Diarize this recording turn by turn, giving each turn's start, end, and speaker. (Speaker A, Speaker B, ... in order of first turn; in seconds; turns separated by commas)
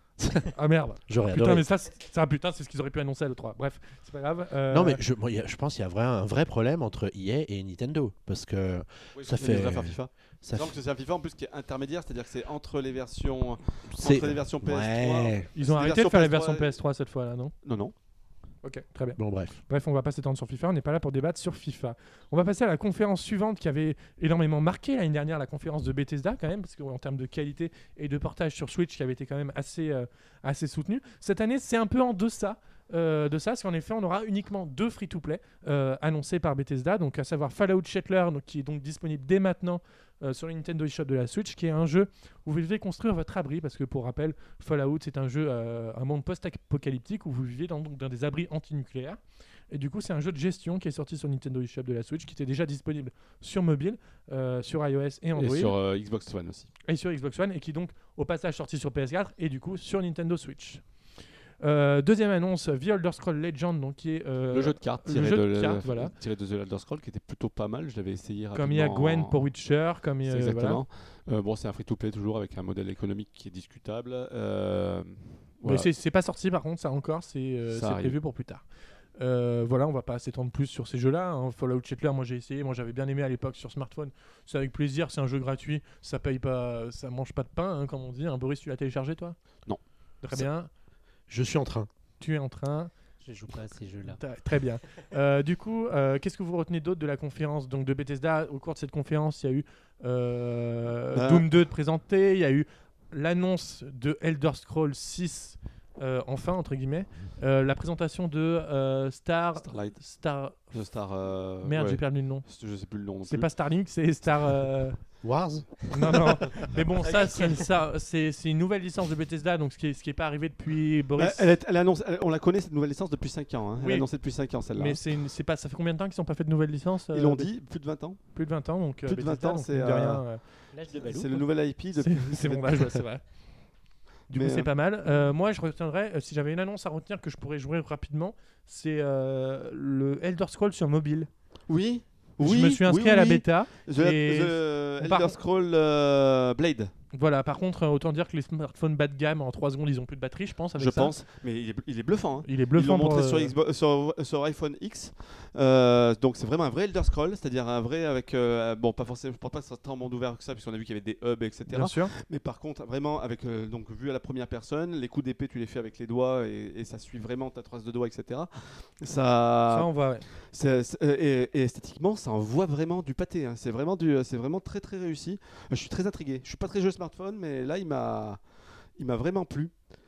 Speaker A: 0.2-0.5, Speaker B: 0.5-5.0, Speaker A: 1.1-1.6, Speaker A: 4.7-10.8, Speaker C: 9.2-16.8, Speaker A: 13.9-15.5, Speaker B: 15.5-17.5, Speaker C: 17.6-17.9, Speaker B: 18.6-49.2, Speaker A: 19.2-19.5, Speaker B: 49.7-55.7, Speaker C: 55.4-56.7, Speaker B: 56.9-60.8, Speaker B: 61.6-66.1, Speaker C: 64.5-69.5, Speaker B: 68.5-70.8, Speaker C: 70.2-75.9, Speaker B: 75.6-78.6, Speaker C: 77.7-78.2, Speaker B: 79.2-89.4, Speaker B: 90.2-90.7, Speaker A: 91.3-91.9, Speaker B: 92.2-92.9, Speaker D: 93.2-94.2, Speaker B: 94.0-110.7, Speaker C: 101.1-101.5, Speaker C: 109.6-110.0, Speaker C: 110.7-113.5, Speaker B: 111.6-112.5, Speaker B: 113.2-115.1, Speaker A: 115.2-116.4, Speaker B: 115.9-121.5, Speaker D: 117.1-117.6, Speaker C: 121.2-125.0, Speaker B: 123.8-124.1, Speaker B: 124.7-127.5, Speaker C: 127.1-128.3, Speaker B: 128.3-130.4, Speaker C: 129.0-130.2, Speaker D: 130.7-131.4, Speaker C: 130.9-133.0, Speaker B: 131.9-133.2, Speaker B: 134.3-141.3, Speaker C: 134.3-134.7, Speaker C: 141.7-146.9, Speaker B: 142.4-145.4, Speaker B: 147.1-151.1, Speaker C: 150.8-169.9, Speaker B: 152.4-153.5, Speaker B: 161.7-162.1, Speaker B: 169.7-170.2, Speaker C: 170.4-178.4, Speaker C: 179.0-179.7